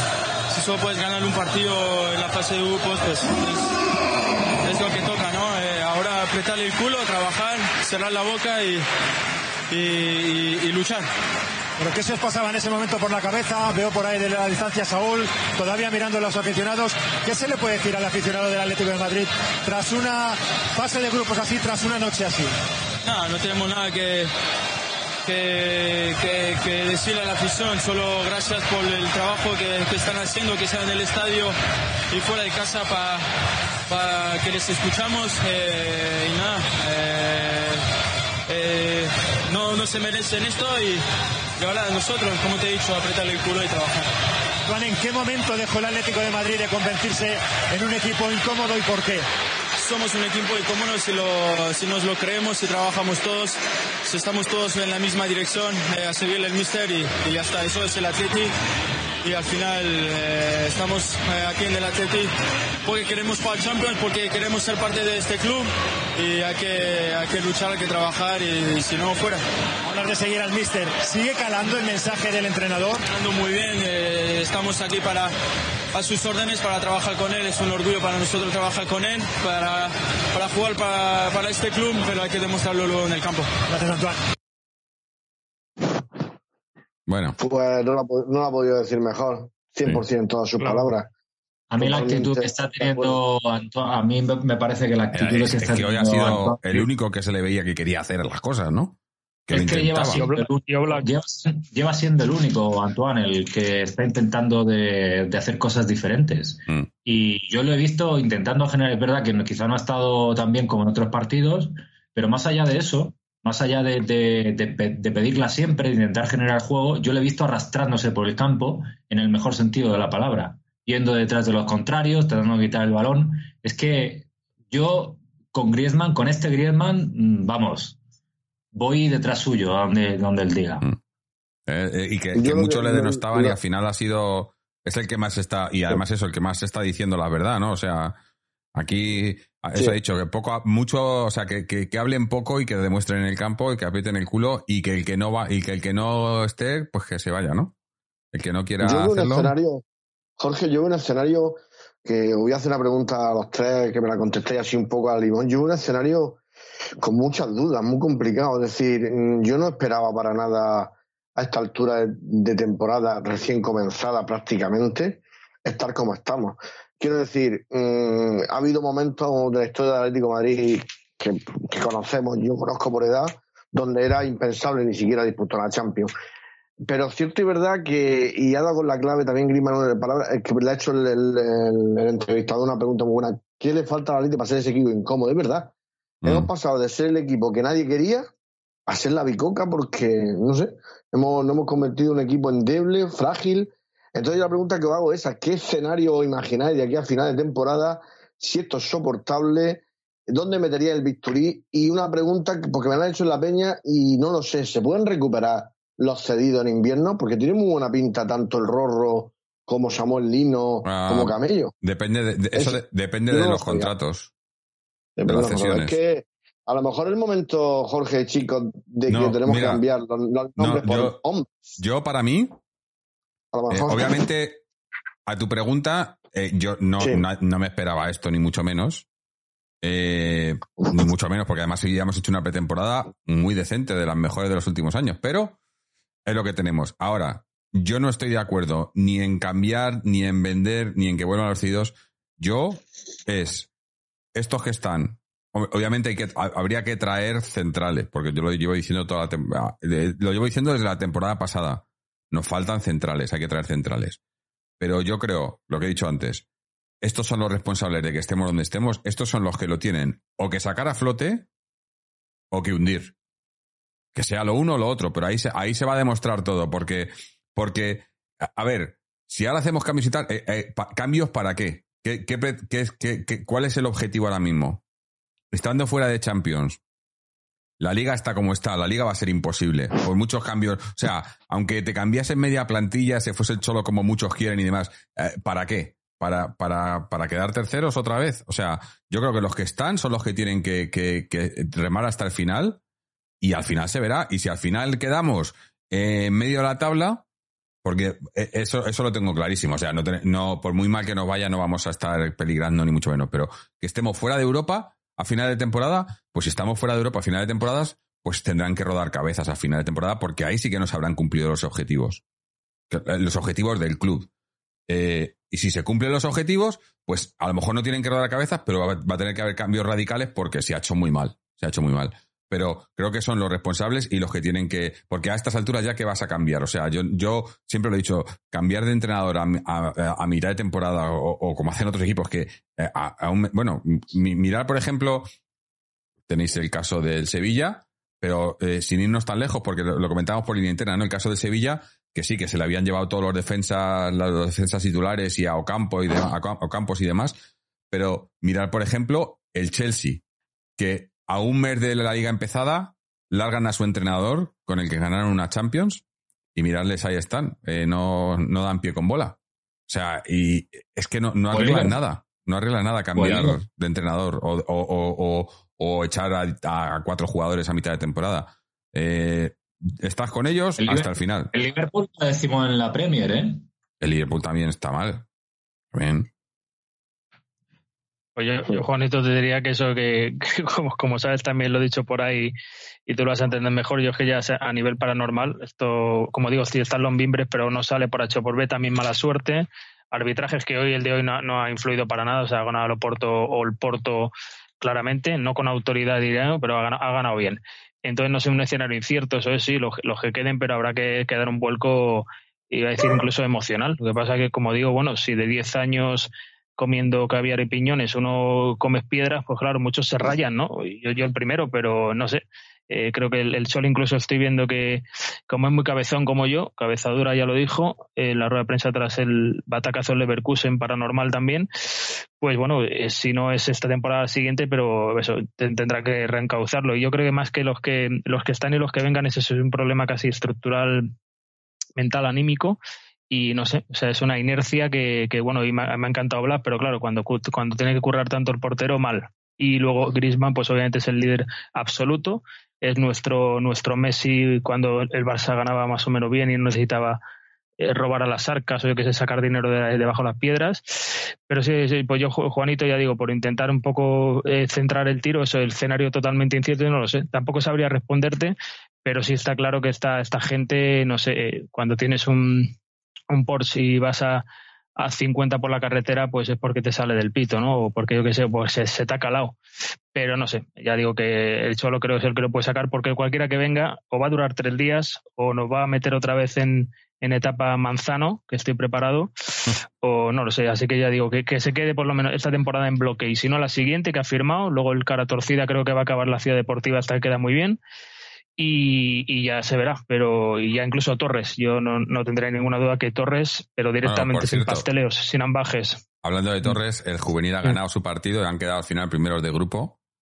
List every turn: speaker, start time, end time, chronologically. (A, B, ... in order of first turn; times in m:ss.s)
0:00.5-0:03.8 A
0:04.6-0:08.9 A
0:09.7-0:11.1 A
0:11.8-0:22.6 B
0:23.0-0:24.3 A
0:25.2-0:31.6 A
0:32.1-0:33.3 A
0:33.9-0:37.9 A
0:38.5-0:41.0 A
0:41.6-0:44.1 A
0:44.7-0:49.3 B
0:49.8-0:58.5 A
0:59.2-1:02.3 A
1:02.8-1:09.4 A
1:09.8-1:13.0 B
1:13.0-1:15.3 A
1:15.9-1:23.5 A
1:23.7-1:24.2 B
1:27.1-1:27.4 C
1:27.4-1:31.1 D
1:30.6-1:30.9 E
1:31.7-1:36.9 F
1:31.8-1:33.2 D
1:35.1-1:40.2 C
1:39.5-2:08.0 F
1:40.1-1:41.1 E
2:08.7-2:10.8 F
2:11.7-2:18.2 C
2:12.4-2:13.6 D
2:18.8-2:27.7 C
2:28.3-2:29.5 C
2:28.8-2:29.8 D
2:30.4-2:36.4 D
2:37.0-2:56.1 D
2:56.9-3:05.7 D
3:06.2-3:06.5 C
3:06.2-3:08.3 D
3:08.9-3:31.7 D
3:30.8-3:34.3 C
3:32.5-3:33.9 D
3:35.2-3:41.6 D
3:35.3-3:36.0 C
3:39.1-3:39.8 C
3:40.6-3:41.2 C
3:41.8-3:42.6 C
3:43.5-3:44.2 D
3:43.7-3:44.6 C
3:45.3-3:49.1 C
3:47.0-3:47.2 D
3:49.8-3:55.6 C
3:56.3-4:03.7 C
4:04.4-4:14.2 C
4:14.8-4:16.4 C
4:17.0-4:21.5 C
4:22.5-4:23.1 C
4:24.2-4:34.8 C
4:35.5-4:36.8 C
4:37.8-4:52.8 C
4:53.4-4:57.2 C
4:57.8-5:12.2 C
5:12.9-5:14.3 C
5:14.9-5:35.3 C
5:36.3-5:47.4 C
5:47.9-5:50.2 C
5:50.8-5:56.0 C
5:56.6-5:59.4 C
5:59.9-6:11.5 C
6:01.5-6:02.0 F
6:03.2-6:03.6 F
6:10.8-6:13.7 F
6:14.0-6:15.2 C
6:15.9-6:16.3 C
6:18.4-6:22.5 E
6:23.1-7:01.7 E
7:02.4-7:11.1 E
7:12.0-7:12.8 E
7:13.3-7:27.2 E
7:27.8-7:42.7 E
7:43.3-7:44.4 E
7:45.0-7:49.6 E
7:50.1-7:59.3 E
8:00.0-8:07.8 E
8:08.6-8:16.0 E
8:14.0-8:14.9 C
8:16.2-8:20.0 C